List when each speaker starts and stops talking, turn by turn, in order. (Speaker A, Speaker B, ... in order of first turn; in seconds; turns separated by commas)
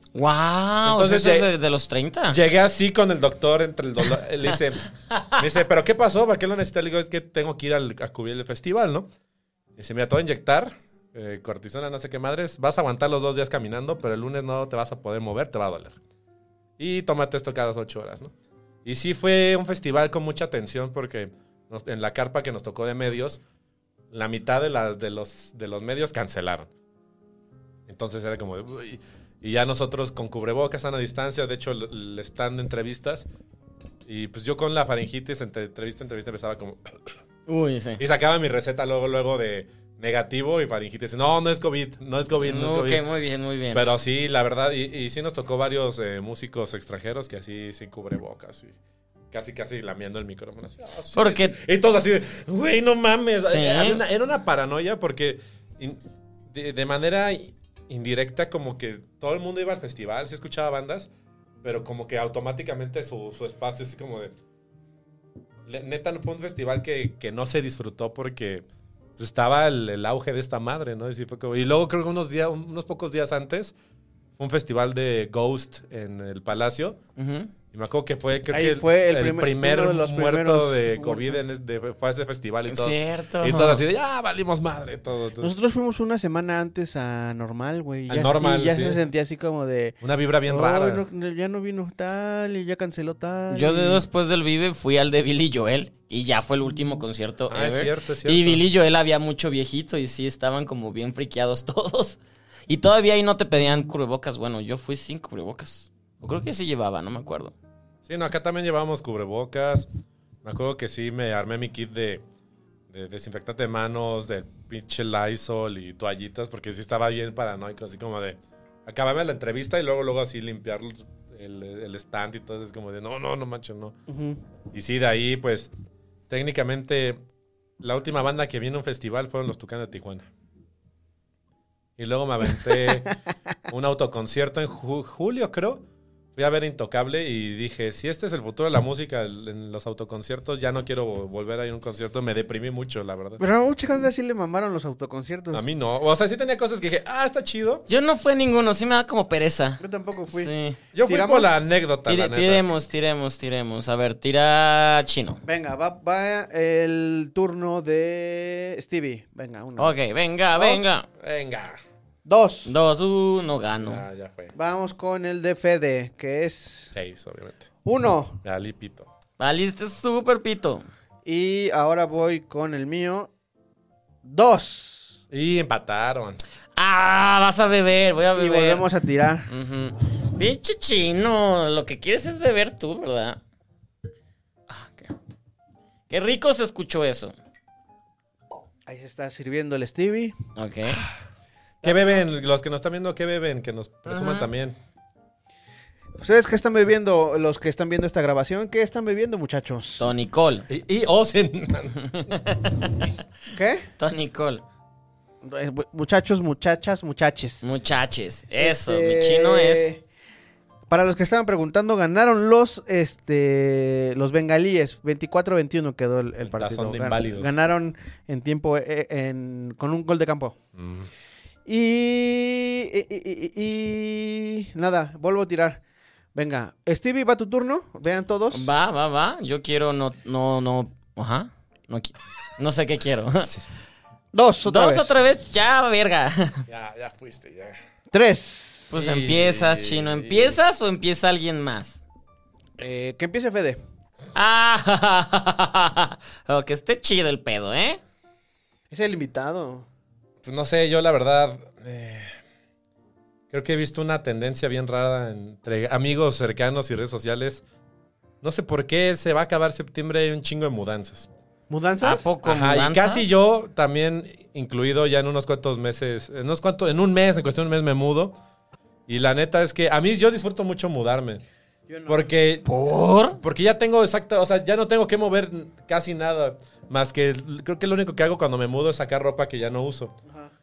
Speaker A: 0.1-2.4, Speaker B: 0.8-1.5, Speaker B: 2.3-9.1, Speaker B: 9.8-16.0, Speaker B: 16.8-18.3, Speaker B: 18.8-23.4, Speaker B: 24.1-26.7, Speaker B: 27.9-33.3, Speaker B: 34.0-37.1, Speaker A: 37.5-38.0, Speaker B: 38.0-43.0, Speaker A: 42.4-43.8, Speaker B: 43.7-48.8, Speaker B: 49.3-61.1, Speaker A: 51.1-51.5, Speaker A: 53.4-54.0, Speaker B: 61.6-64.3, Speaker B: 65.7-68.7, Speaker B: 69.2-73.7, Speaker B: 74.4-77.0, Speaker A: 77.2-77.5, Speaker B: 77.7-85.5, Speaker C: 78.5-81.4, Speaker A: 82.7-83.8, Speaker C: 85.4-90.0, Speaker B: 88.1-89.0, Speaker B: 90.0-91.0, Speaker C: 90.5-94.0, Speaker A: 93.5-107.5, Speaker B: 97.5-98.6, Speaker B: 108.0-109.9, Speaker B: 110.4-112.2, Speaker B: 112.9-124.0, Speaker C: 124.1-124.4, Speaker B: 124.7-125.7, Speaker B: 126.3-127.2, Speaker B: 127.8-130.3, Speaker B: 132.0-133.1, Speaker B: 133.7-135.8, Speaker B: 136.3-143.4, Speaker C: 143.4-145.6, Speaker B: 145.5-147.8, Speaker A: 147.9-149.8, Speaker C: 149.8-150.5, Speaker A: 150.3-150.8, Speaker B: 150.9-152.6, Speaker C: 151.1-151.5, Speaker A: 152.1-155.4, Speaker C: 155.4-159.9, Speaker A: 159.8-161.1, Speaker B: 161.1-161.8, Speaker C: 162.2-162.7, Speaker A: 162.6-164.0, Speaker B: 163.8-164.5, Speaker C: 164.5-166.9, Speaker B: 166.9-167.7, Speaker C: 167.8-168.4, Speaker B: 168.4-169.1, Speaker A: 169.4-170.8, Speaker C: 171.2-173.3, Speaker C: 174.2-175.2, Speaker B: 175.3-176.4, Speaker A: 176.8-178.8, Speaker C: 178.3-179.5, Speaker A: 179.5-183.4, Speaker A: 184.7-185.1, Speaker A: 186.1-187.3, Speaker C: 188.9-190.3, Speaker A: 190.6-191.0, Speaker C: 191.8-192.2, Speaker B: 191.8-194.8, Speaker A: 194.1-194.5, Speaker C: 196.2-200.0, Speaker A: 200.0-200.7, Speaker B: 200.7-202.0, Speaker A: 202.0-203.0, Speaker C: 203.5-203.8, Speaker A: 204.0-204.6, Speaker C: 205.4-207.6, Speaker A: 207.6-209.9, Speaker C: 208.6-210.0, Speaker C: 210.9-220.6, Speaker B: 216.4-217.5, Speaker B: 220.8-221.1, Speaker C: 221.7-225.8, Speaker C: 226.3-228.7, Speaker A: 228.5-233.5, Speaker C: 234.3-235.1, Speaker A: 234.6-236.6, Speaker B: 236.7-237.8, Speaker C: 238.1-238.9, Speaker A: 238.9-242.0, Speaker B: 238.9-240.6, Speaker C: 242.8-243.8, Speaker A: 244.3-248.0, Speaker C: 248.9-249.8, Speaker B: 250.4-252.3, Speaker B: 253.5-257.6, Speaker B: 258.4-261.3, Speaker C: 261.7-262.2, Speaker A: 262.0-263.3, Speaker B: 262.4-268.4, Speaker B: 269.1-271.4, Speaker C: 271.9-272.2, Speaker B: 272.1-272.6, Speaker A: 272.6-273.4, Speaker B: 273.4-280.1